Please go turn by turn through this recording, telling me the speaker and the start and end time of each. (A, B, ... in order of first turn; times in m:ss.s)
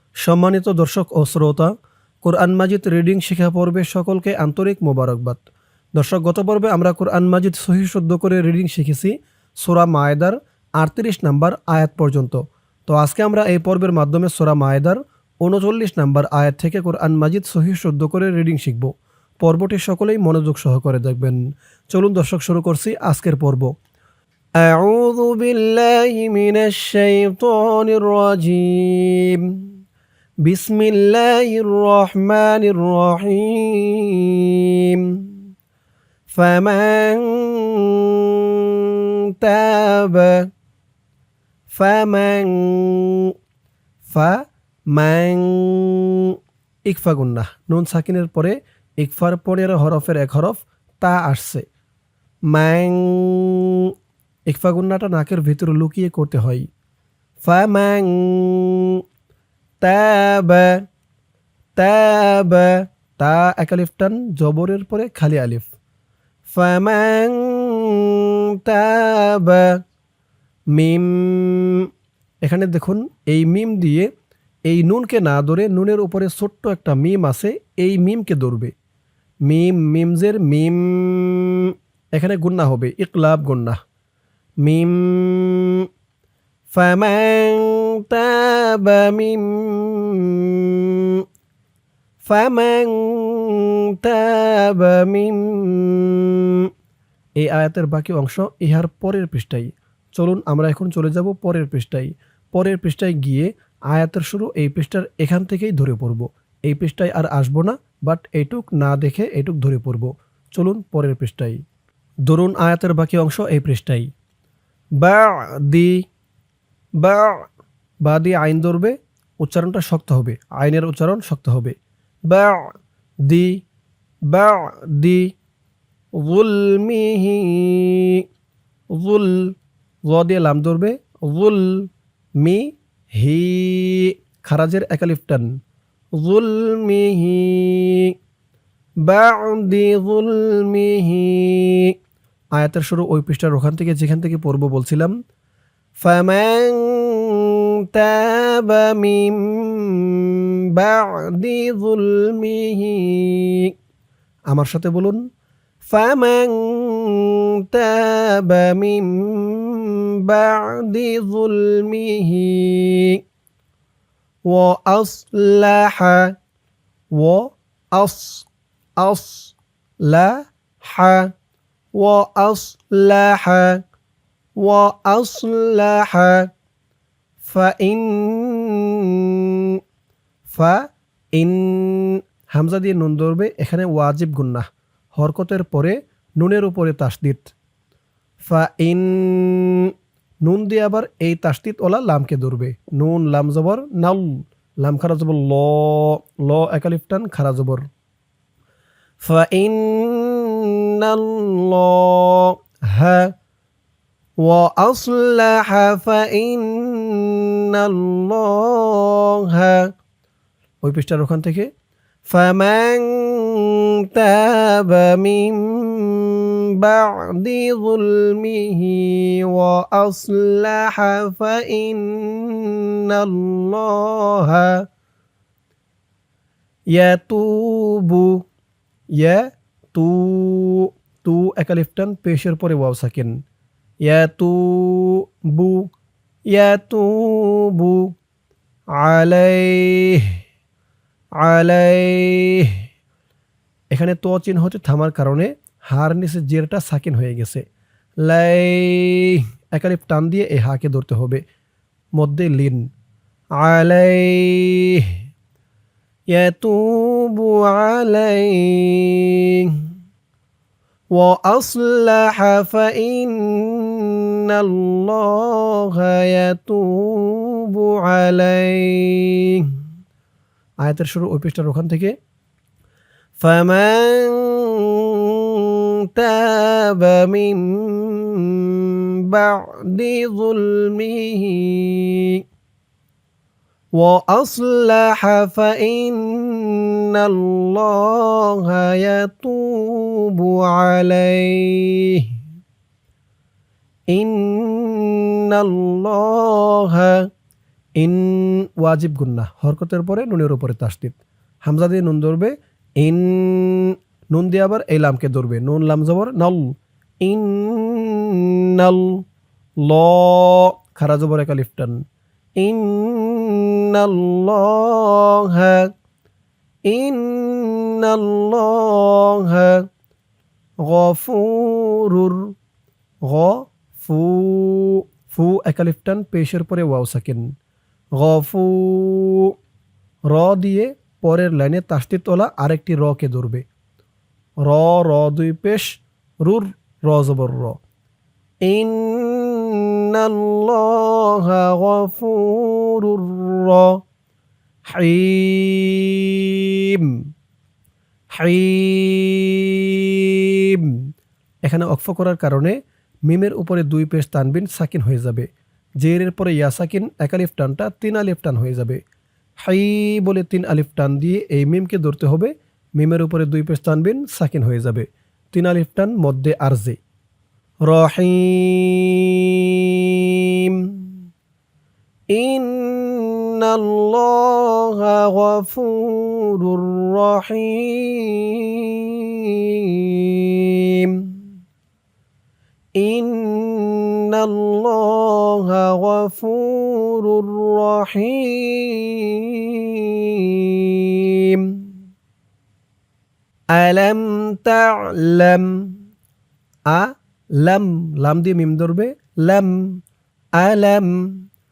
0:00.2-0:01.7 A
0:02.2-0:05.4 A
0:05.9-0:23.7 A
0:24.6-0:29.6 A
0:30.4-0:35.4 A
0:36.3-0:40.4 A
0:41.7-0:43.3 A
0:44.1-0:46.3 A
0:46.8-0:51.6 A
0:52.5-0:53.9 A
0:54.5-0:56.6 A
0:57.4-0:59.0 A
0:59.8-1:00.8 A
1:01.8-1:05.7 A
1:06.5-1:09.7 A
1:10.7-1:11.9 A
1:12.4-1:14.1 A
1:14.7-1:18.7 A
1:19.5-1:23.8 A
1:24.6-1:25.8 A
1:26.7-1:31.2 A
1:32.2-1:36.7 A
1:37.4-1:51.6 A
1:52.3-1:54.1 A
1:55.0-1:55.9 A
1:57.0-1:57.4 A
1:58.0-2:01.7 A
2:02.3-2:02.6 A
2:03.2-2:03.6 A
2:04.3-2:05.3 A
2:06.2-2:08.2 A
2:08.9-2:09.5 A
2:10.1-2:11.9 A
2:12.4-2:15.5 A
2:16.2-2:18.1 A
2:19.0-2:21.9 A
2:22.5-2:25.1 A
2:26.0-2:33.7 A
2:34.5-2:35.2 A
2:35.8-2:43.2 A
2:44.5-2:46.3 A
2:47.1-2:51.3 A
2:52.0-2:53.8 A
2:54.6-2:56.5 A
2:57.4-2:59.8 A
3:00.5-3:00.8 A
3:01.3-3:04.6 A
3:05.2-3:07.5 A
3:08.4-3:17.9 A
3:19.2-3:23.3 A
3:24.4-3:29.9 A
3:30.8-3:31.7 A
3:32.3-3:44.8 A
3:46.9-3:48.4 A
3:49.2-3:53.3 A
3:54.0-3:55.9 A
3:56.5-3:58.1 A
3:59.0-4:00.4 A
4:01.4-4:02.8 A
4:03.9-4:07.6 A
4:08.2-4:11.4 A
4:12.2-4:12.8 A
4:13.6-4:15.1 A
4:16.3-4:19.8 A
4:21.2-4:29.7 A
4:30.8-4:32.1 A
4:33.4-4:42.4 A
4:44.0-4:52.3 A
4:54.1-4:57.2 A
4:58.0-5:09.2 A
5:09.8-5:12.0 A
5:12.6-5:15.9 A
5:16.9-5:19.8 A
5:20.8-5:22.5 A
5:23.2-5:27.4 A
5:28.2-5:29.5 A
5:30.3-5:33.6 A
5:34.6-5:37.8 A
5:38.6-5:44.0 A
5:44.9-5:47.2 A
5:48.3-5:50.9 A
5:51.6-5:55.5 A
5:56.0-5:59.0 A
5:59.6-6:07.0 A
6:07.9-6:11.1 A
6:12.3-6:21.4 A
6:23.0-6:31.9 A
6:33.7-6:36.0 A
6:36.9-6:40.0 A
6:40.6-6:41.4 A